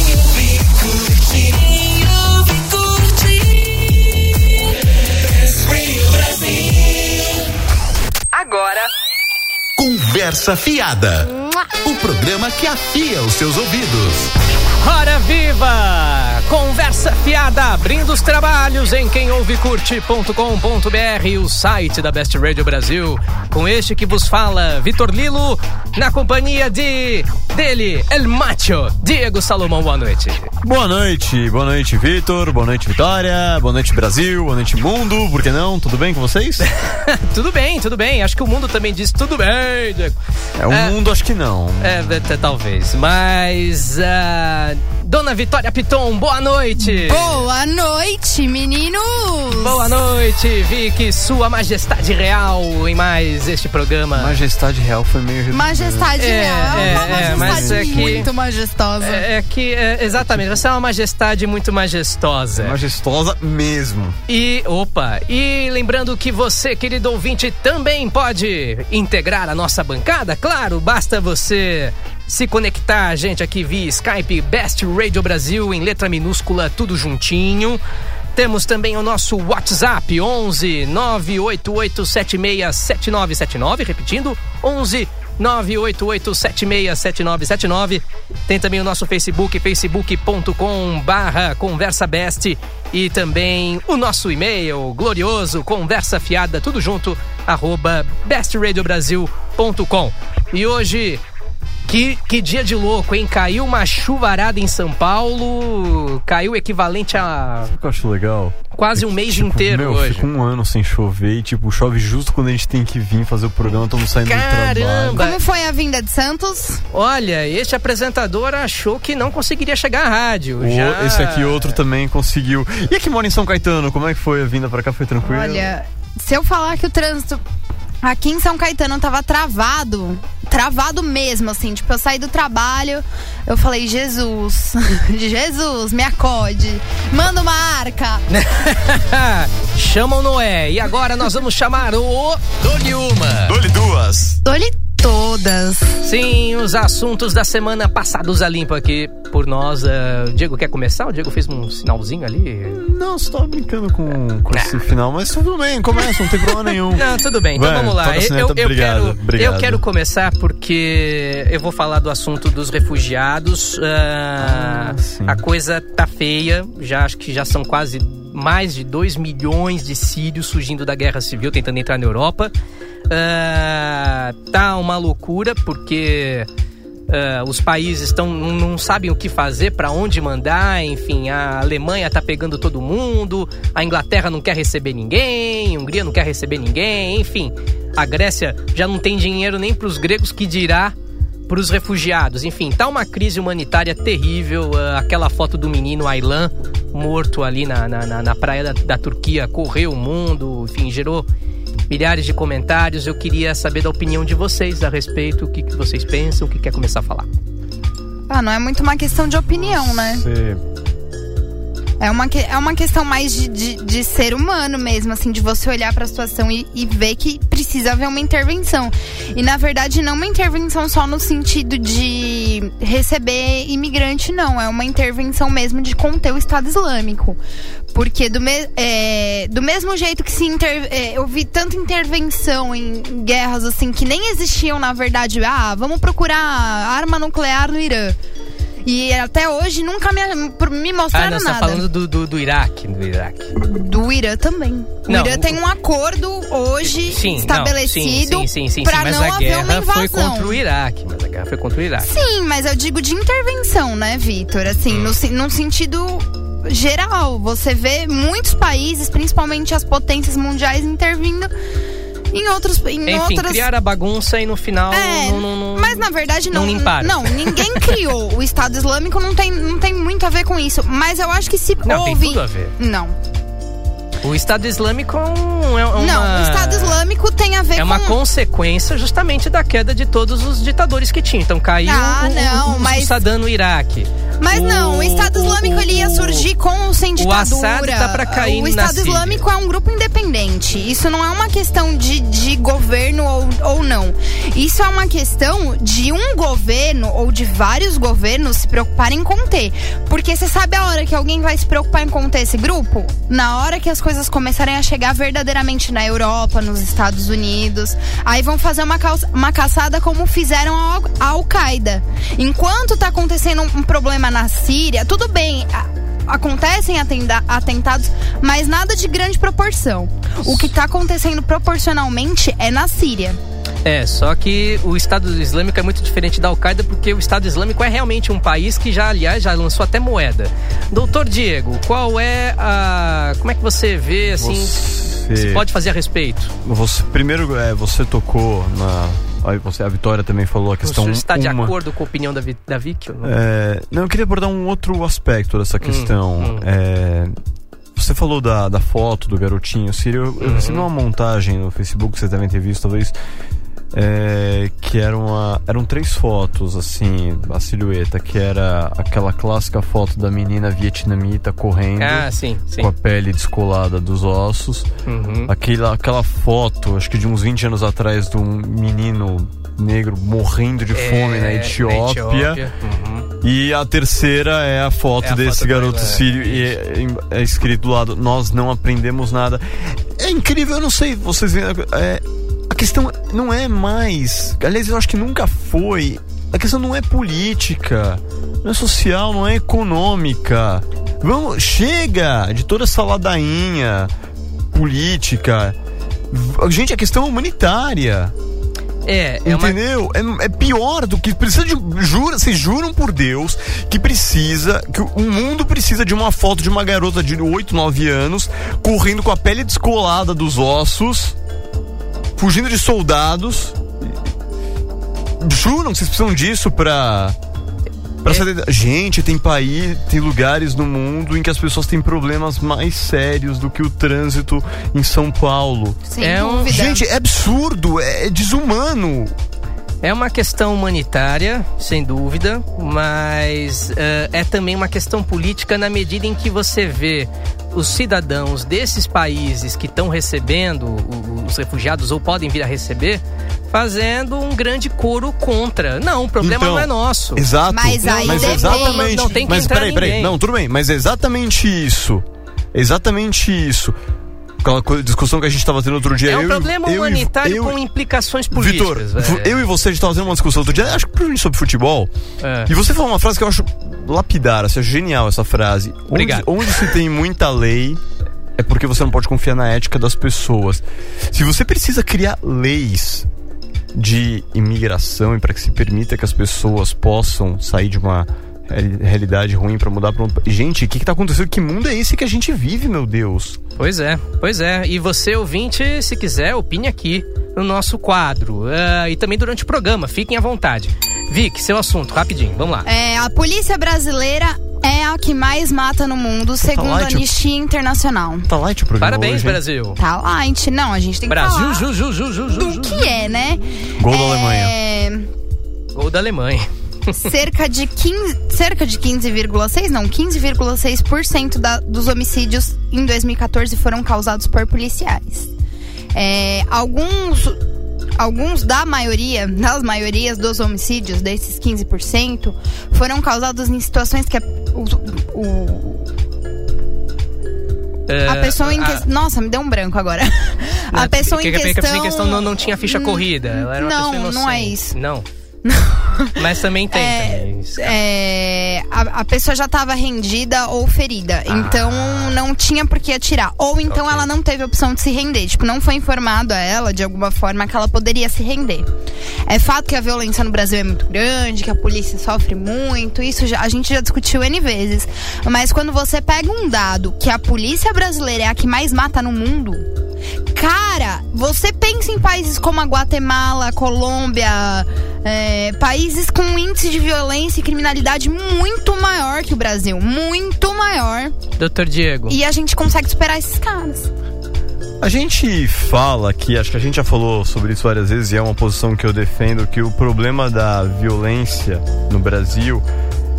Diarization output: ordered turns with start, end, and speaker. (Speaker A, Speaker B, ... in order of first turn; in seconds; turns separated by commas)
Speaker A: 1.2-1.6, Speaker A: 2.2-3.6, Speaker A: 5.6-6.9, Speaker A: 8.3-8.9, Speaker B: 9.8-11.3, Speaker B: 11.8-14.3, Speaker A: 14.8-30.5, Speaker C: 30.6-36.7, Speaker A: 36.6-40.2, Speaker C: 40.6-41.9, Speaker A: 40.7-41.0, Speaker A: 41.8-47.4, Speaker D: 46.8-49.9, Speaker A: 49.5-54.4, Speaker C: 54.1-58.3, Speaker D: 55.5-59.2, Speaker A: 56.2-58.3, Speaker A: 59.0-62.8, Speaker C: 60.2-60.4, Speaker C: 62.5-64.2, Speaker A: 64.3-77.8, Speaker A: 78.3-101.2, Speaker A: 101.8-107.7, Speaker C: 107.6-115.2, Speaker A: 108.7-110.3, Speaker A: 114.2-115.4, Speaker D: 115.1-116.8, Speaker A: 116.9-121.8, Speaker C: 120.6-125.7, Speaker D: 125.2-127.4, Speaker D: 128.0-138.2, Speaker A: 138.3-143.5, Speaker C: 143.4-144.4, Speaker D: 144.4-146.0, Speaker A: 146.0-152.8, Speaker C: 152.7-159.8, Speaker A: 154.5-154.8, Speaker A: 156.4-172.5, Speaker C: 164.4-165.4, Speaker A: 173.1-176.5, Speaker A: 177.1-190.9, Speaker A: 191.5-201.2, Speaker A: 201.9-207.3, Speaker D: 208.3-210.2, Speaker C: 209.5-210.6, Speaker D: 212.0-227.4, Speaker D: 227.9-238.2, Speaker D: 238.8-241.8, Speaker A: 241.1-243.5, Speaker D: 243.5-250.6, Speaker A: 245.1-245.6, Speaker A: 246.8-252.1, Speaker D: 252.0-261.5, Speaker A: 254.9-255.1, Speaker D: 262.3-263.6, Speaker A: 263.1-267.9, Speaker D: 264.9-273.1, Speaker A: 271.8-272.7, Speaker A: 274.2-277.0, Speaker D: 275.9-278.2, Speaker A: 277.8-286.5, Speaker D: 281.8-283.2, Speaker D: 284.4-323.4, Speaker A: 287.2-289.4, Speaker A: 320.4-320.7, Speaker A: 323.8-336.5, Speaker C: 334.3-335.7, Speaker C: 336.6-341.8, Speaker A: 340.8-343.3, Speaker C: 343.2-347.3, Speaker A: 345.8-346.7, Speaker C: 347.9-353.1, Speaker A: 350.4-350.9, Speaker C: 353.9-364.9, Speaker A: 362.0-362.9, Speaker A: 365.1-365.5, Speaker C: 365.5-372.6, Speaker A: 370.9-373.3, Speaker C: 373.4-394.1, Speaker A: 375.2-376.7, Speaker C: 394.7-395.8, Speaker C: 396.3-398.3, Speaker A: 399.1-399.8, Speaker C: 399.4-411.4, Speaker C: 412.4-414.2, Speaker C: 415.4-417.4, Speaker C: 418.2-426.0, Speaker D: 426.1-427.0, Speaker A: 426.2-426.7, Speaker C: 426.6-429.3, Speaker A: 430.0-447.5, Speaker C: 446.4-453.9, Speaker D: 447.7-449.5, Speaker A: 448.0-450.3, Speaker C: 454.6-457.8, Speaker A: 456.2-460.9, Speaker C: 458.5-462.1, Speaker A: 462.4-462.7, Speaker C: 462.7-468.0, Speaker A: 466.1-466.9, Speaker C: 468.6-473.3, Speaker C: 473.9-483.6, Speaker A: 483.8-492.9, Speaker D: 492.9-498.5, Speaker C: 496.7-497.3, Speaker C: 498.5-499.6, Speaker A: 499.0-500.0, Speaker D: 500.0-501.9, Speaker A: 501.3-503.1, Speaker D: 502.5-505.3, Speaker C: 504.0-504.7, Speaker A: 505.9-507.2, Speaker D: 507.2-515.5, Speaker D: 516.1-517.6, Speaker D: 518.2-526.1, Speaker A: 528.1-529.0, Speaker D: 528.2-535.0, Speaker A: 530.9-535.2, Speaker D: 535.6-536.4, Speaker A: 536.4-538.0, Speaker D: 536.9-548.9, Speaker A: 541.5-542.4, Speaker A: 543.9-544.3, Speaker D: 549.5-559.8, Speaker D: 560.5-571.3, Speaker A: 571.6-572.4, Speaker D: 572.3-574.1, Speaker C: 575.0-582.9